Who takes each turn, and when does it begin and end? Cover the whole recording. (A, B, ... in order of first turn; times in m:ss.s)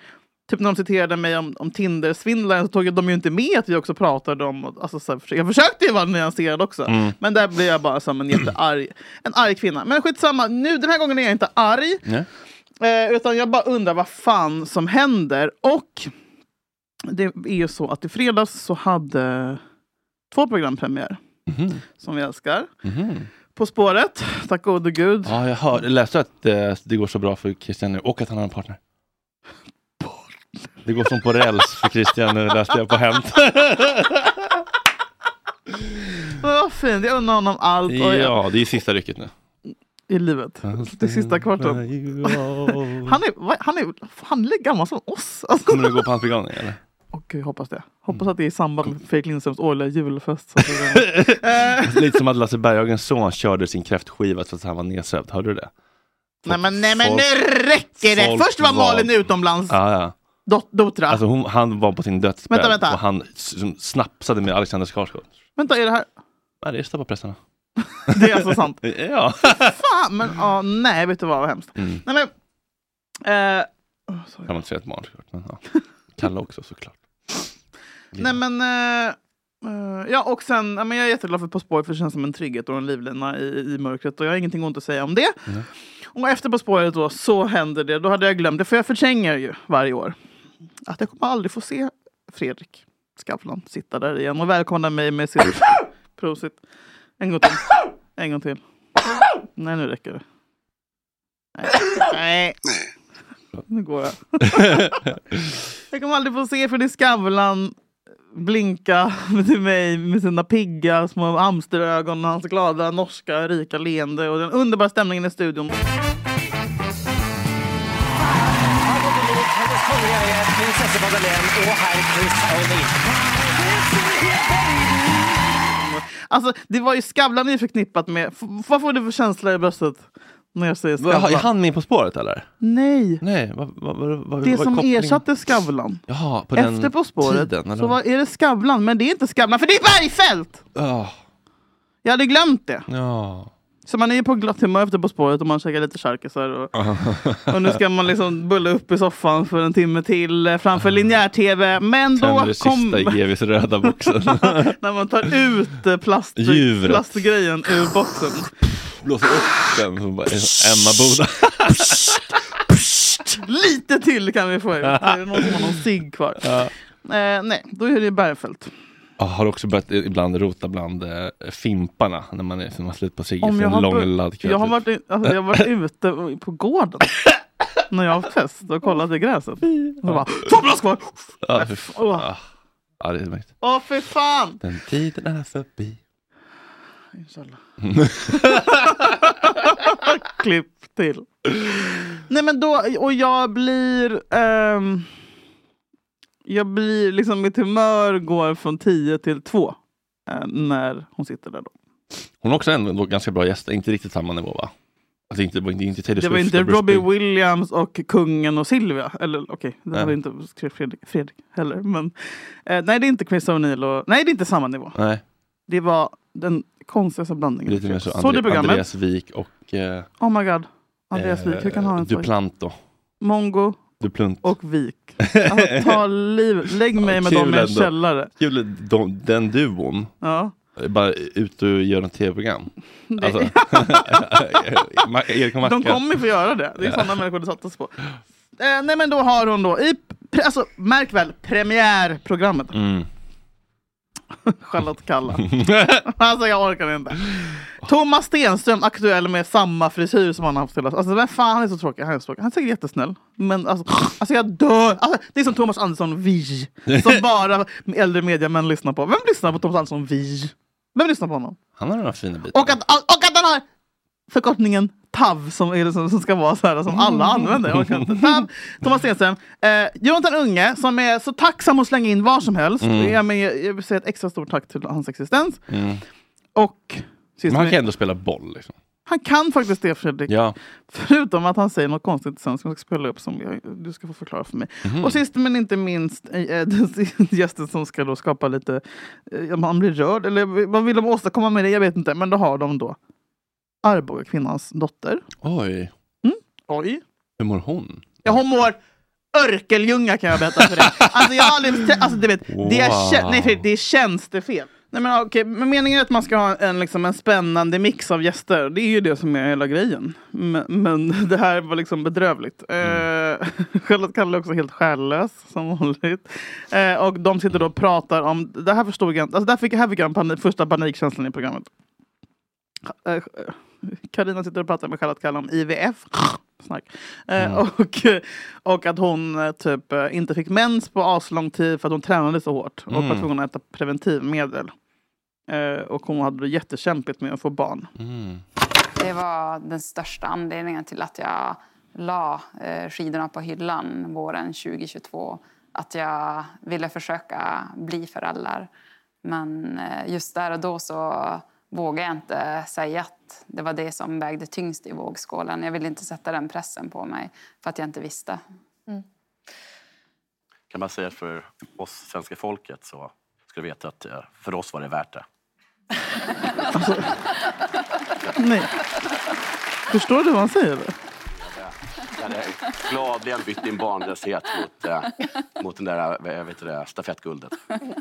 0:00.5-0:12.0 A
0:06.9-0:07.2 B
0:12.8-0:16.1 A
0:17.1-0:19.6 A
0:20.3-0:21.2 A
0:21.5-0:21.8 B
0:22.0-0:22.7 A
0:22.8-0:23.3 B
0:23.5-0:25.3 A
0:25.2-0:28.8 B
0:30.8-0:34.4 B
0:36.4-0:38.3 A
0:37.9-0:39.3 B
0:40.1-0:46.0 A
0:40.6-0:43.2 B
0:45.7-0:46.8 B
0:47.1-0:52.1 A
0:50.6-0:55.7 B
0:56.4-0:57.3 B
0:56.4-0:59.8 A
0:58.0-1:00.1 B
1:00.4-1:01.2 A
1:01.1-1:05.3 B
1:02.5-1:03.0 A
1:05.6-1:06.1 A
1:06.6-1:07.4 B
1:08.1-1:08.8 A
1:08.1-1:09.8 B
1:09.6-1:12.3 A
1:11.8-1:12.0 B
1:13.2-1:14.5 A
1:14.5-1:15.6 B
1:16.2-1:17.0 B
1:18.2-1:25.4 A
1:26.1-1:30.1 A
1:30.9-1:36.6 A
1:37.2-1:38.6 A
1:39.6-1:40.2 A
1:41.6-1:42.6 A
1:43.7-1:45.0 A
1:44.5-1:45.1 B
1:45.9-1:47.7 A
1:48.3-1:55.7 A
1:58.8-2:03.1 C
2:03.6-2:04.7 A
2:05.6-2:11.5 A
2:11.0-2:12.5 B
2:12.6-2:13.2 A
2:13.2-2:15.2 B
2:14.4-2:16.0 A
2:16.1-2:18.0 B
2:16.5-2:20.6 A
2:20.7-2:21.2 B
2:22.0-2:22.8 A
2:22.9-2:23.5 B
2:23.8-2:26.7 A
2:26.7-2:27.8 B
2:27.5-2:33.2 A
2:32.2-2:34.8 B
2:33.9-2:38.5 A
2:36.4-2:37.1 B
2:39.0-2:42.3 B
2:42.7-2:46.5 A
2:44.8-2:45.7 B
2:46.4-2:46.7 B
2:47.0-2:48.7 A
2:49.2-2:54.8 B
2:53.4-2:57.1 A
2:57.9-3:02.2 A
2:59.8-3:00.3 B
3:01.4-3:02.4 B
3:03.0-3:03.5 B
3:03.6-3:04.6 A
3:04.6-3:06.0 B
3:07.2-3:07.6 A
3:07.8-3:09.0 B
3:08.2-3:11.3 A
3:12.3-3:15.1 A
3:16.4-3:19.8 A
3:20.3-3:21.7 A
3:22.4-3:24.7 B
3:25.3-3:27.1 B
3:26.2-3:32.1 A
3:32.6-3:35.0 A
3:35.0-3:35.2 B
3:35.7-3:38.8 A
3:37.7-3:40.1 B
3:40.2-3:42.3 A
3:41.1-3:42.8 B
3:43.2-3:43.8 A
3:44.0-3:44.5 B
3:44.4-3:48.3 A
3:45.2-3:46.0 B
3:47.0-3:50.1 B
3:50.2-3:50.5 A
3:50.8-3:56.2 B
3:53.1-3:55.0 A
3:55.6-3:57.9 A
3:56.8-3:57.2 B
3:58.6-4:02.8 A
4:02.7-4:03.1 B
4:04.4-4:21.6 A
4:05.4-4:06.0 B
4:16.9-4:17.2 B
4:21.8-4:22.8 B
4:22.5-4:23.6 A
4:24.3-4:35.6 A
4:26.9-4:28.4 B
4:32.8-4:33.2 B
4:35.7-4:36.0 B
4:36.6-4:37.8 A
4:37.5-4:38.7 B
4:39.1-4:40.3 A
4:40.3-4:40.6 B
4:40.9-4:53.0 A
4:44.8-4:45.2 B
4:53.8-4:55.2 A
4:55.4-4:55.9 B
4:56.2-4:57.0 A
4:57.4-4:58.4 B
4:58.2-4:58.8 A
4:59.3-5:21.7 A
5:00.8-5:01.7 B
5:02.5-5:03.6 B
5:12.8-5:13.1 B
5:22.9-5:34.7 A
5:27.4-5:27.6 B
5:32.9-5:33.3 B
5:35.5-5:37.9 A
5:38.0-5:38.4 B
5:39.0-5:48.7 D
5:49.2-5:58.4 D
6:00.7-6:05.2 E
6:06.7-6:07.0 A
6:08.4-6:08.7 A
6:09.9-6:10.9 A
6:11.4-6:17.6 E